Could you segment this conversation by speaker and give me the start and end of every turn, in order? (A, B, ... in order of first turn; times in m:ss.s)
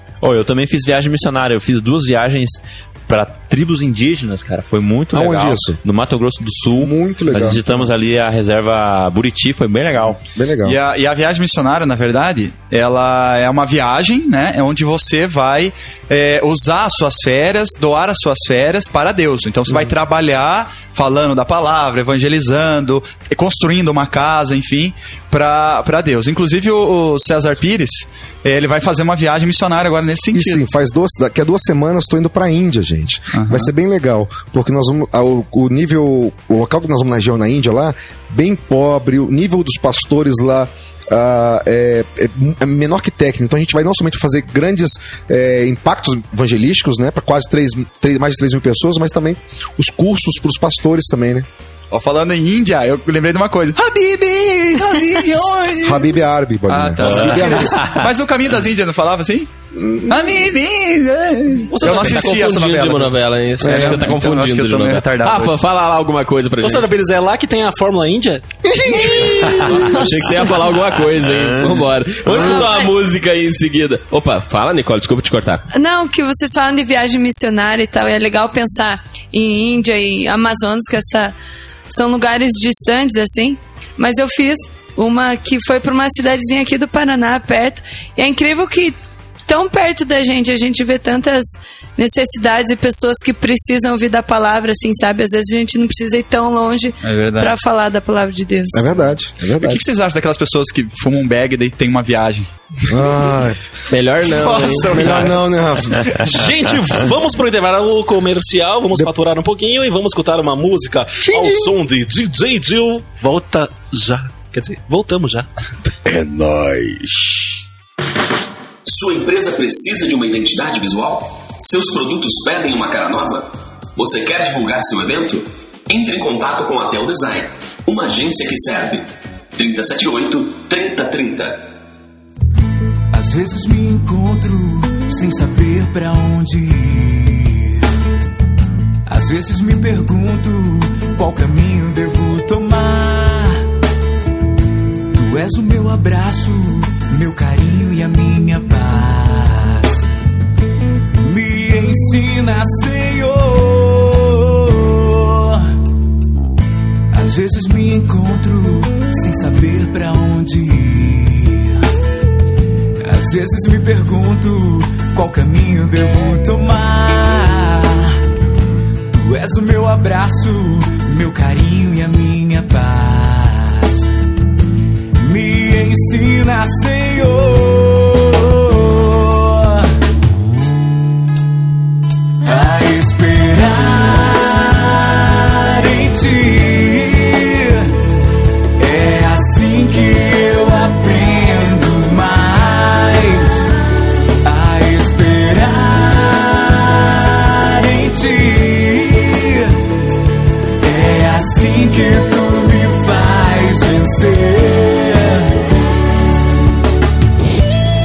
0:00.2-0:10.2 A
0:05.1-0:05.8 B
0:06.8-0:07.9 B
0:10.0-0:10.8 B
0:10.6-0:30.6 C
0:30.3-0:51.5 B
0:33.3-0:33.7 C
0:51.9-0:56.2 C
0:55.8-0:57.8 B
0:56.7-0:59.5 C
0:59.7-1:00.4 B
1:00.1-1:05.5 C
1:01.7-1:02.4 D
1:01.8-1:06.9 E
1:03.6-1:04.1 B
1:06.6-1:08.4 D
1:08.6-1:10.0 B
1:09.4-1:15.6 E
1:09.6-1:10.0 D
1:12.2-1:12.7 D
1:15.7-1:21.3 F
1:21.9-1:38.8 F
1:37.0-1:37.6 C
1:38.7-1:39.8 B
1:39.6-1:42.5 C
1:42.9-1:43.6 B
1:43.9-1:45.3 E
1:44.2-1:46.1 C
1:44.9-1:46.2 B
1:46.1-1:55.5 D
1:51.2-1:51.7 B
1:56.0-1:57.1 D
1:58.8-2:11.7 G
2:13.1-2:17.8 H
2:19.0-2:23.6 H
2:25.1-2:30.1 H
2:31.2-2:35.7 H
2:37.1-2:41.8 H
2:43.0-2:48.2 H
2:49.1-2:54.0 H
2:55.2-2:59.9 H
3:02.4-3:08.0 H
3:08.8-3:13.7 H
3:14.4-3:19.8 H
3:20.8-3:25.6 H